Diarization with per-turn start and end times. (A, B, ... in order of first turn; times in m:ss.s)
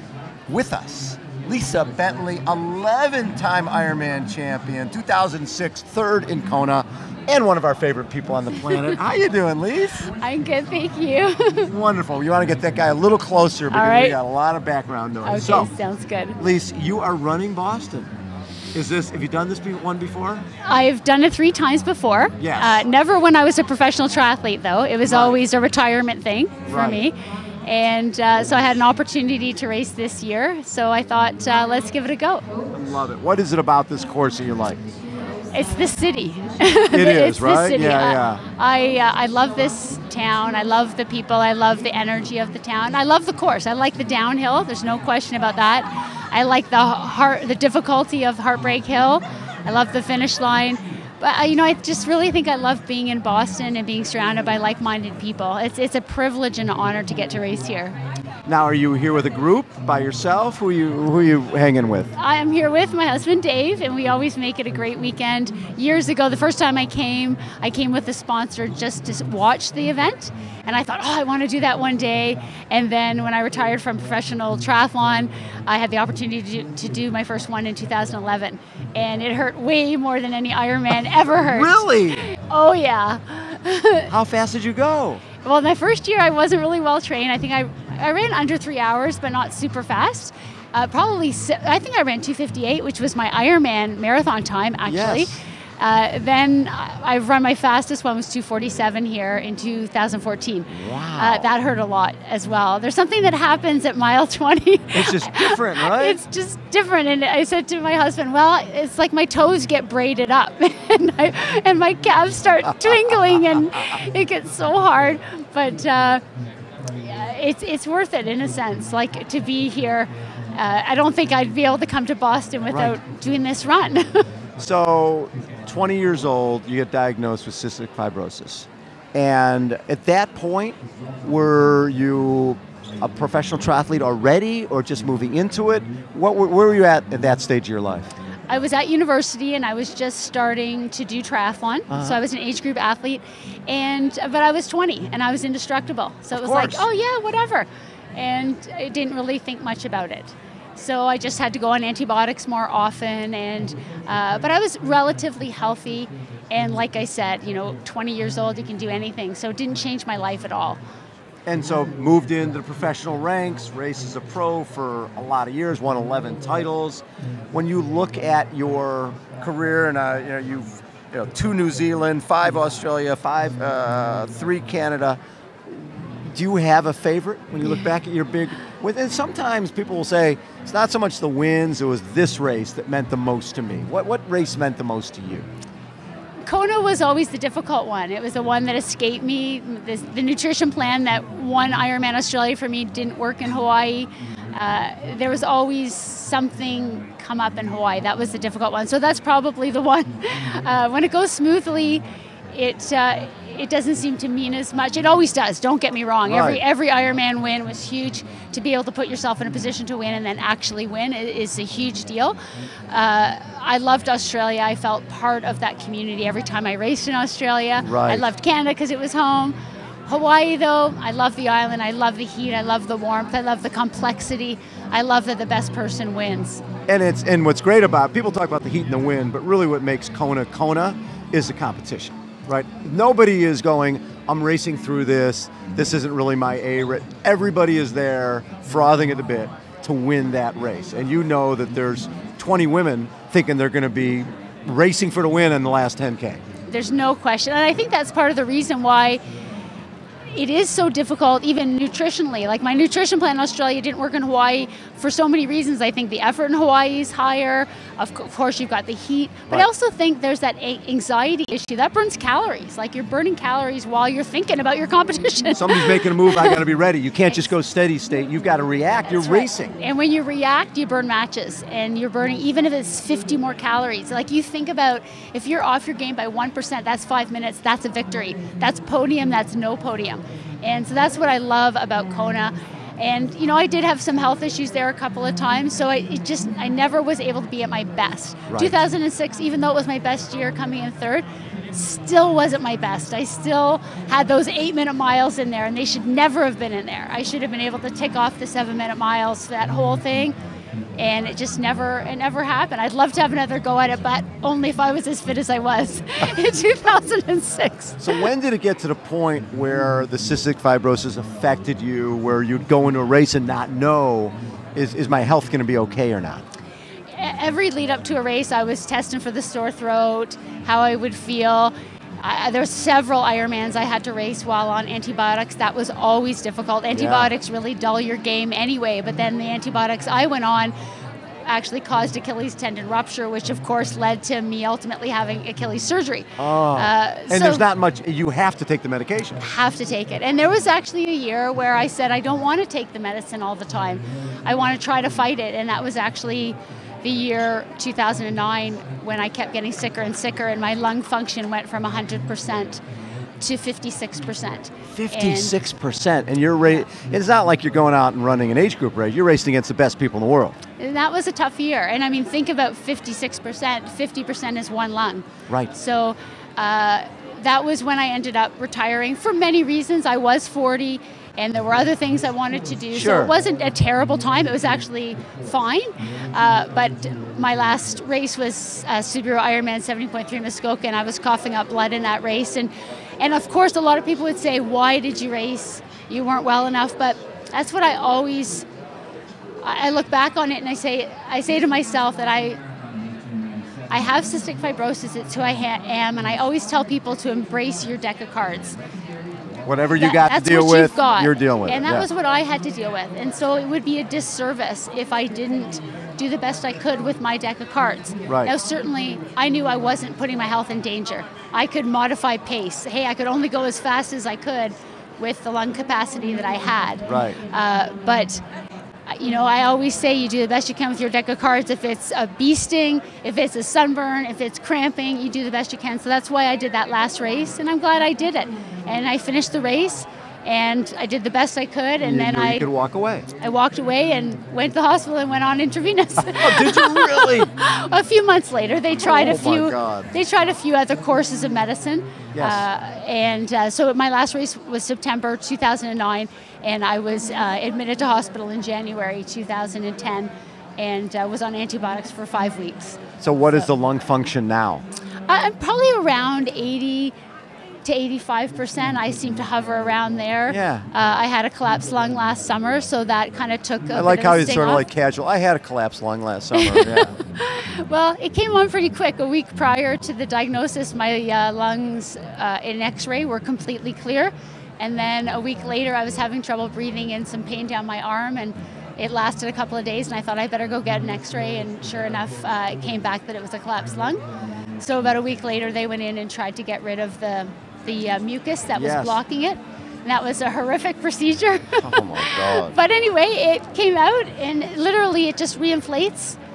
0:00.5-0:10.1 A
0:08.5-0:09.0 B
0:10.2-0:11.7 B
0:11.7-0:15.7 A
0:13.7-0:14.2 B
0:15.2-0:16.4 B
0:16.4-0:18.1 A
0:18.7-0:20.4 A
0:20.6-0:32.4 B
0:22.4-0:22.8 A
0:25.0-0:25.4 A
0:26.6-0:27.0 A
0:32.7-0:34.8 A
0:35.5-0:58.0 B
0:36.9-0:38.4 A
0:58.5-1:02.1 A
1:02.2-1:24.1 B
1:21.3-1:22.2 A
1:24.1-1:25.2 A
1:25.4-1:56.2 B
1:34.8-1:35.4 A
1:40.7-1:41.5 A
1:44.9-1:46.2 A
1:52.8-1:53.7 A
1:57.0-2:04.2 B
2:02.7-2:03.0 A
2:04.6-2:18.1 A
2:18.5-2:40.8 B
2:21.9-2:22.2 A
2:26.3-2:26.8 A
2:41.5-3:05.5 A
3:06.4-3:32.4 B
3:26.2-3:26.6 A
3:32.9-3:39.6 B
3:37.8-3:38.3 A
3:40.1-3:46.6 B
3:46.9-4:06.4 A
4:06.7-4:09.2 B
4:10.3-4:26.6 B
4:25.5-4:29.7 A
4:29.1-5:00.4 B
4:48.5-4:48.8 A
5:01.0-5:08.2 B
5:08.0-5:16.4 A
5:17.2-5:30.7 B
5:26.9-5:27.3 A
5:31.5-5:37.6 B
5:36.4-5:39.4 A
5:39.4-5:52.8 B
5:53.4-5:55.5 B
5:54.9-6:00.6 A
6:00.8-6:28.6 B
6:12.9-6:13.3 A
6:29.6-6:32.6 B
6:33.9-6:38.8 B
6:39.6-6:42.1 A
6:40.0-6:58.4 B
6:48.3-6:48.5 A
6:57.1-6:57.4 A
6:59.1-7:12.6 B
7:12.0-7:13.3 A
7:13.4-7:33.7 B
7:16.2-7:17.5 A
7:18.9-7:20.1 A
7:22.3-7:22.6 A
7:33.2-7:34.8 A
7:35.3-7:37.1 B
7:37.8-7:44.8 B
7:40.5-7:40.9 A
7:43.9-7:47.1 A
7:46.5-8:04.2 B
8:04.8-8:16.4 B
8:08.7-8:09.2 A
8:11.8-8:12.8 A